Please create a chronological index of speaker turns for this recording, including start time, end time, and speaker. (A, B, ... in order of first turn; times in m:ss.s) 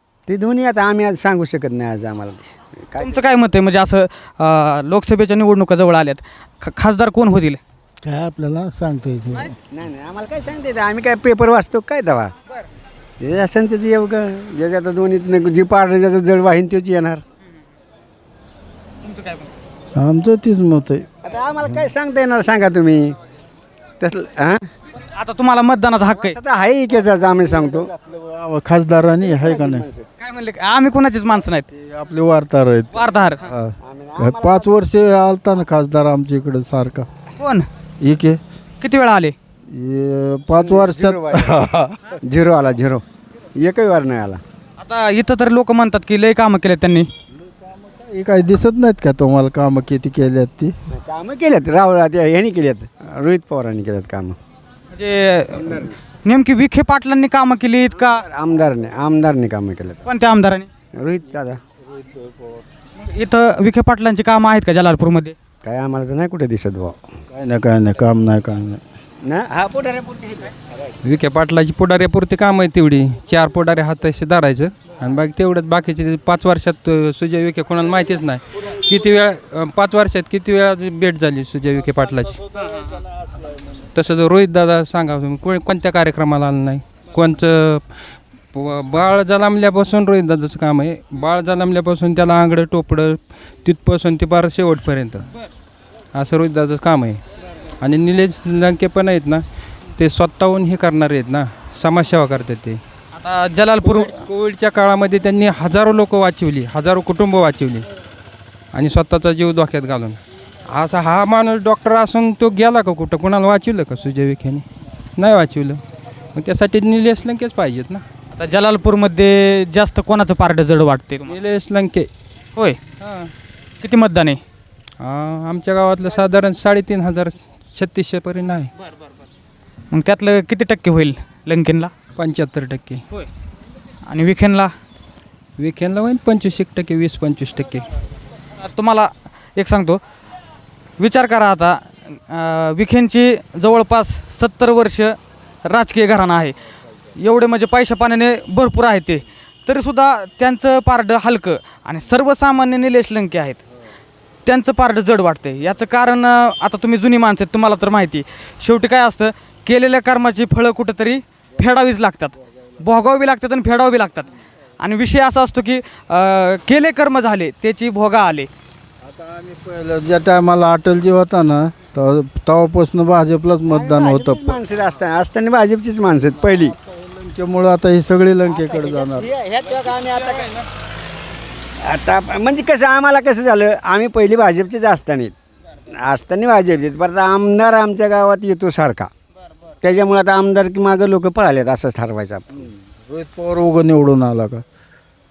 0:00.3-0:03.2 A
0:03.0-0:07.6 B
0:08.0-0:09.5 C
0:09.7-0:12.3 A
0:13.2-0:17.2 A
0:19.0-0:19.5 B
0:20.0-0:21.1 C
0:21.2-0:23.2 A
0:24.0-0:24.7 A
0:25.2-0:26.4 B
0:26.2-0:27.9 A
0:28.0-0:29.9 C
0:29.3-0:30.1 A
0:30.2-0:31.7 B
0:31.7-0:37.1 C
0:32.9-0:33.5 B
0:33.8-0:34.8 A
0:37.4-0:37.7 B
0:38.0-0:38.4 C
0:38.8-0:39.4 B
0:39.7-0:41.9 C
0:40.6-0:41.6 A
0:42.2-0:43.0 A
0:43.6-0:44.4 A
0:44.8-0:47.1 B
0:48.0-0:50.8 C
0:50.9-0:54.4 A
0:54.9-0:58.2 B
0:55.6-0:55.9 A
0:58.2-1:00.0 A
1:00.1-1:00.7 B
1:01.0-1:01.6 A
1:03.0-1:05.4 B
1:05.6-1:07.1 A
1:07.3-1:08.8 C
1:09.2-1:10.6 A
1:11.0-1:22.4 D
1:22.6-1:23.0 B
1:24.0-1:27.9 D
1:28.5-1:35.3 D
1:36.2-1:37.2 D
1:37.8-1:39.4 D
1:40.0-1:42.8 D
1:43.2-1:44.1 B
1:43.8-1:47.8 D
1:48.7-1:50.2 D
1:50.7-1:54.6 D
1:55.2-1:55.8 D
1:56.4-1:58.0 D
1:58.3-2:01.4 B
2:01.3-2:02.1 D
2:03.8-2:04.4 B
2:05.0-2:08.7 D
2:09.9-2:11.9 B
2:12.2-2:13.0 D
2:14.1-2:14.7 B
2:15.6-2:17.8 D
2:18.6-2:20.0 B
2:21.0-2:26.6 B
2:27.2-2:33.6 B
2:34.5-2:44.3 B
2:44.8-2:48.5 B
2:49.0-2:54.6 C
2:53.7-2:56.8 A
2:57.0-2:59.3 C
2:58.5-3:00.5 A
3:01.8-3:05.3 A
3:05.9-3:09.1 A
3:09.8-3:12.7 A
3:13.1-3:14.6 C